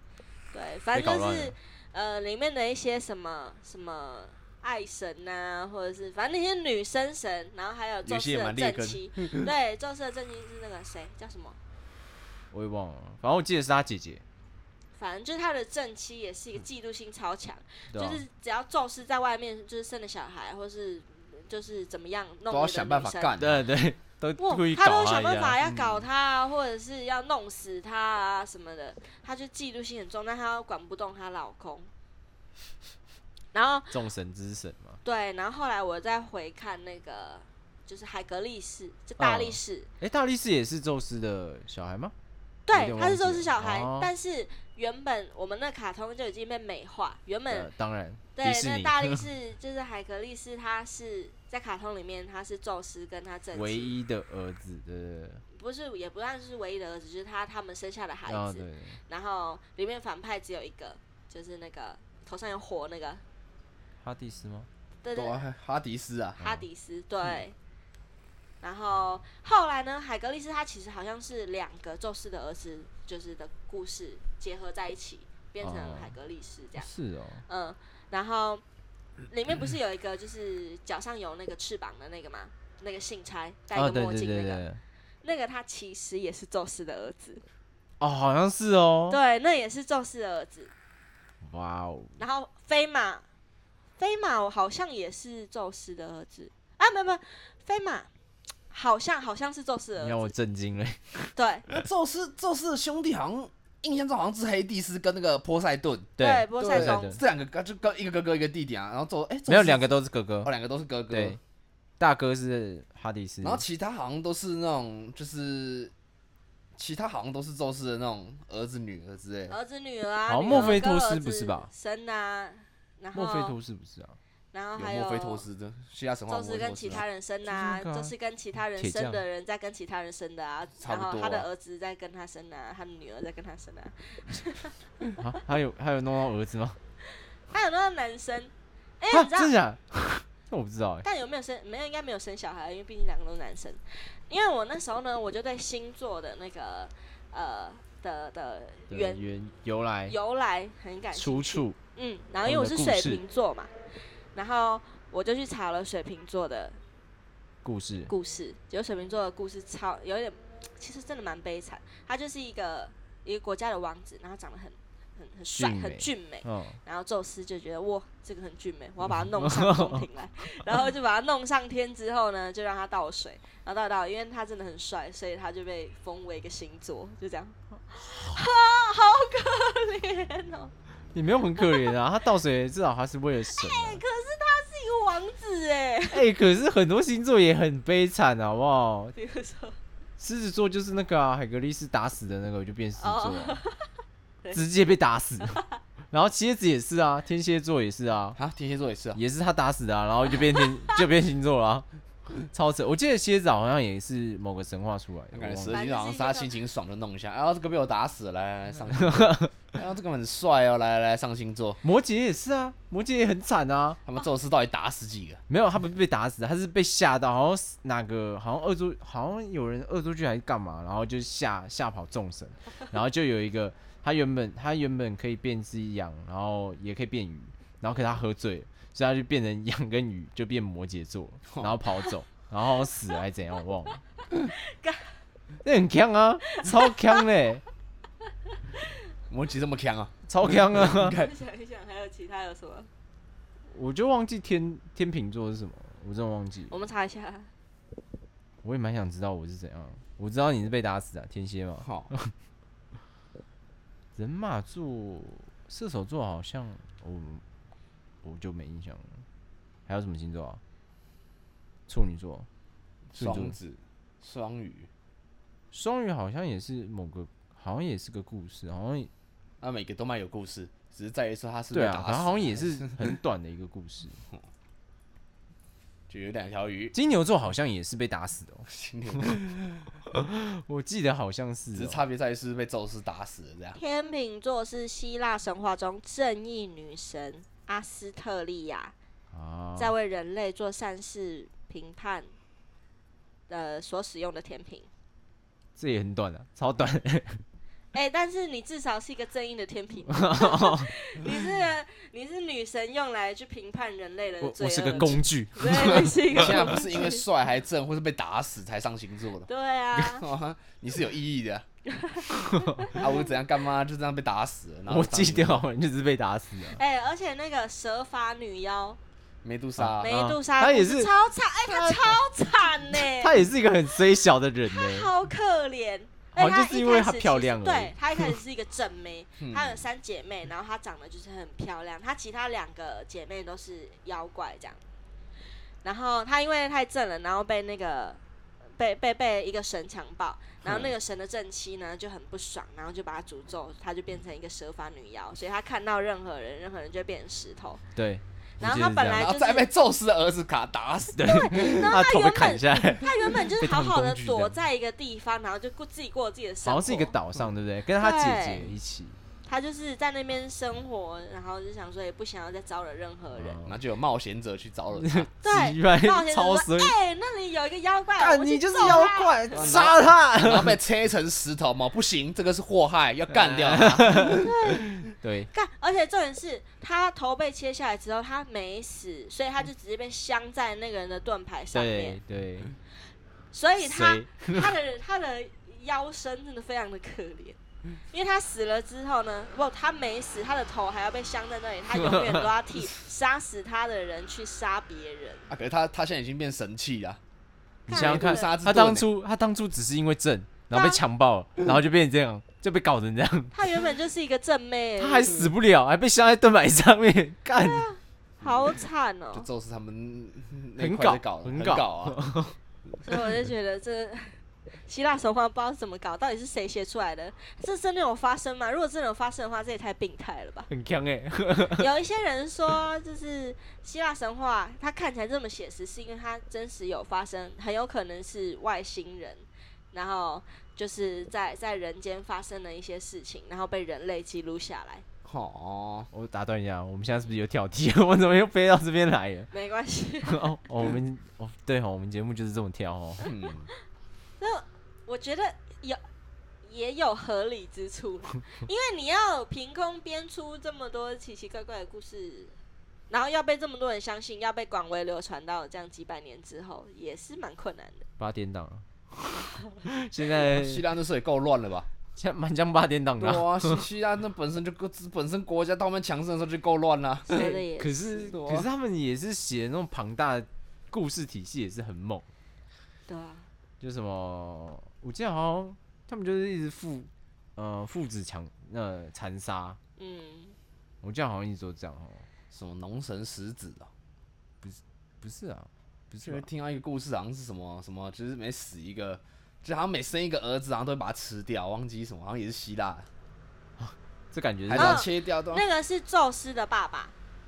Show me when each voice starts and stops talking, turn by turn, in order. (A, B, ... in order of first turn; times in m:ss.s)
0:00.5-0:11.6 A
0:00.9-0:01.6 B
0:08.0-0:09.5 C
0:12.5-0:14.2 B
0:15.0-0:23.3 A
0:17.9-0:18.2 B
0:22.5-0:23.6 C
0:23.4-0:25.6 B
0:24.4-0:31.9 A
0:25.6-0:26.0 C
0:33.5-0:34.0 A
0:33.9-0:35.0 B
0:35.0-0:39.9 A
0:39.2-0:42.1 B
0:42.7-0:47.7 A
0:42.7-0:44.1 B
0:47.5-0:49.3 B
0:48.4-0:54.0 A
0:53.5-0:55.4 B
0:55.5-1:03.2 A
0:58.3-0:59.0 B
1:04.0-1:04.7 B
1:05.0-1:05.4 A
1:05.2-1:06.4 C
1:06.4-1:07.6 A
1:08.6-1:16.9 A
1:15.6-1:16.1 B
1:16.8-1:17.4 B
1:17.5-1:18.6 A
1:19.3-1:24.6 A
1:23.7-1:24.8 B
1:25.2-1:27.4 A
1:28.0-1:29.2 B
1:29.1-1:30.7 A
1:31.4-1:32.2 B
1:32.2-1:33.3 A
1:34.0-1:38.1 A
1:38.7-1:40.3 A
1:40.0-1:41.3 B
1:41.4-1:41.7 A
1:41.7-1:49.9 C
1:46.2-1:47.2 B
1:46.2-1:47.2 A
1:49.5-1:50.5 B
1:50.4-1:51.4 C
1:51.1-1:51.4 B
1:52.0-1:53.6 B
1:53.4-1:55.9 C
1:56.8-1:59.5 C
1:59.5-2:03.6 A
2:00.3-2:01.7 B
2:00.5-2:00.8 C
2:03.1-2:04.2 B
2:04.5-2:05.4 A
2:04.8-2:07.0 C
2:06.3-2:14.8 A
2:07.5-2:08.1 B
2:08.8-2:09.2 B
2:10.8-2:11.5 C
2:15.2-2:16.8 B
2:17.2-2:19.5 A
2:19.1-2:21.0 B
2:21.0-2:29.3 A
2:28.9-2:30.2 B
2:30.1-2:33.7 A
2:31.1-2:31.8 B
2:32.4-2:33.2 B
2:34.3-2:36.8 A
2:37.6-2:38.1 B
2:38.1-3:00.7 A
2:45.5-2:46.8 B
2:49.2-2:50.1 B
2:58.1-2:58.4 B
3:01.1-3:04.0 B
3:01.6-3:02.0 A
3:03.5-3:06.3 A
3:06.1-3:09.2 B
3:09.2-3:09.8 A
3:10.2-3:13.6 B
3:13.0-3:13.9 A
3:14.5-3:15.6 B
3:15.4-3:15.8 A
3:16.1-3:18.4 B
3:18.4-3:19.2 C
3:19.2-3:21.9 B
3:20.6-3:21.0 A
3:22.4-3:25.8 B
3:25.3-3:31.8 C
3:25.7-3:26.5 A
3:29.0-3:29.5 B
3:31.8-3:34.0 B
3:34.1-3:35.4 C
3:35.5-3:54.0 B
3:51.5-3:51.8 C
3:54.4-3:55.1 A
3:55.6-3:57.6 B
3:56.5-3:57.2 A
3:59.3-4:01.3 C
4:00.3-4:01.2 B
4:01.0-4:02.9 A
4:03.7-4:06.7 B
4:06.7-4:07.5 A
4:08.6-4:12.3 B
4:11.8-4:12.1 C
4:14.2-4:17.4 B
4:18.2-4:19.2 B
4:19.9-4:20.6 B
4:21.9-4:22.5 B
4:23.1-4:24.9 C
4:23.2-4:23.6 B
4:25.7-4:29.1 B
4:29.6-4:33.2 C
4:31.7-4:34.2 B
4:36.1-4:36.9 C
4:36.9-4:39.4 B
4:38.7-4:39.9 C
4:40.1-4:42.0 B
4:41.7-4:43.8 C
4:43.8-4:48.9 A
4:49.3-4:49.9 B
4:49.8-4:52.3 A
4:53.5-4:54.9 A
4:55.8-4:57.4 B
4:57.9-5:07.2 A
5:00.1-5:00.9 B
5:04.4-5:06.8 B
5:06.3-5:09.5 C
5:09.5-5:10.3 A
5:10.1-5:11.7 C
5:11.9-5:13.0 A
5:12.5-5:12.9 B
5:12.9-5:15.6 C
5:14.9-5:16.8 B
5:16.7-5:19.0 A
5:19.4-5:20.1 C
5:19.8-5:21.1 B
5:20.0-5:23.4 A
5:21.6-5:22.2 B
5:22.9-5:25.1 B
5:24.7-5:34.8 A
5:26.4-5:28.4 B
5:29.4-5:29.8 C
5:35.8-5:38.2 A
5:38.8-5:47.8 A
5:48.0-5:49.3 B
5:48.6-5:49.7 A
5:49.2-5:51.8 C
5:51.2-5:54.6 B
5:51.2-5:57.1 A
5:56.6-5:59.2 B
5:58.0-5:58.7 A
5:59.5-6:03.6 A
6:03.4-6:03.8 B
6:03.7-6:05.3 C
6:05.0-6:07.0 B
6:05.4-6:09.9 A
6:08.2-6:10.8 B
6:09.5-6:14.5 C
6:13.4-6:15.5 B
6:14.2-6:22.2 A
6:21.7-6:22.7 B
6:23.5-6:35.5 A
6:23.8-6:24.8 B
6:31.9-6:32.5 B
6:35.5-6:37.2 C
6:37.9-6:38.5 A
6:37.9-6:43.5 B
6:37.9-6:39.1 C
6:40.7-6:41.0 A
6:43.5-6:45.5 A
6:45.0-6:47.9 B
6:47.6-6:49.5 A
6:48.4-6:48.8 C
6:49.3-6:52.2 C
6:50.8-6:52.6 B
6:53.0-7:00.7 A
7:00.7-7:01.9 B
7:01.8-7:15.0 A
7:15.2-7:16.1 C
7:16.1-7:19.5 B
7:19.5-7:20.5 A
7:20.3-7:23.3 B
7:23.2-7:23.7 C
7:24.4-7:26.0 A
7:26.6-7:32.6 A
7:33.1-7:38.1 A
7:38.2-7:40.8 B
7:40.4-7:41.9 C
7:42.2-7:43.8 B
7:43.2-7:47.6 C
7:47.3-7:48.4 A
7:47.4-7:52.3 B
7:48.3-7:48.7 C
7:53.1-7:53.5 A
7:53.8-7:59.8 B
8:00.0-8:00.6 A
8:01.0-8:02.3 B
8:02.5-8:03.9 C
8:04.6-8:06.4 B
8:06.2-8:13.1 C
8:13.8-8:15.0 B
8:14.7-8:15.6 C
8:14.8-8:17.1 A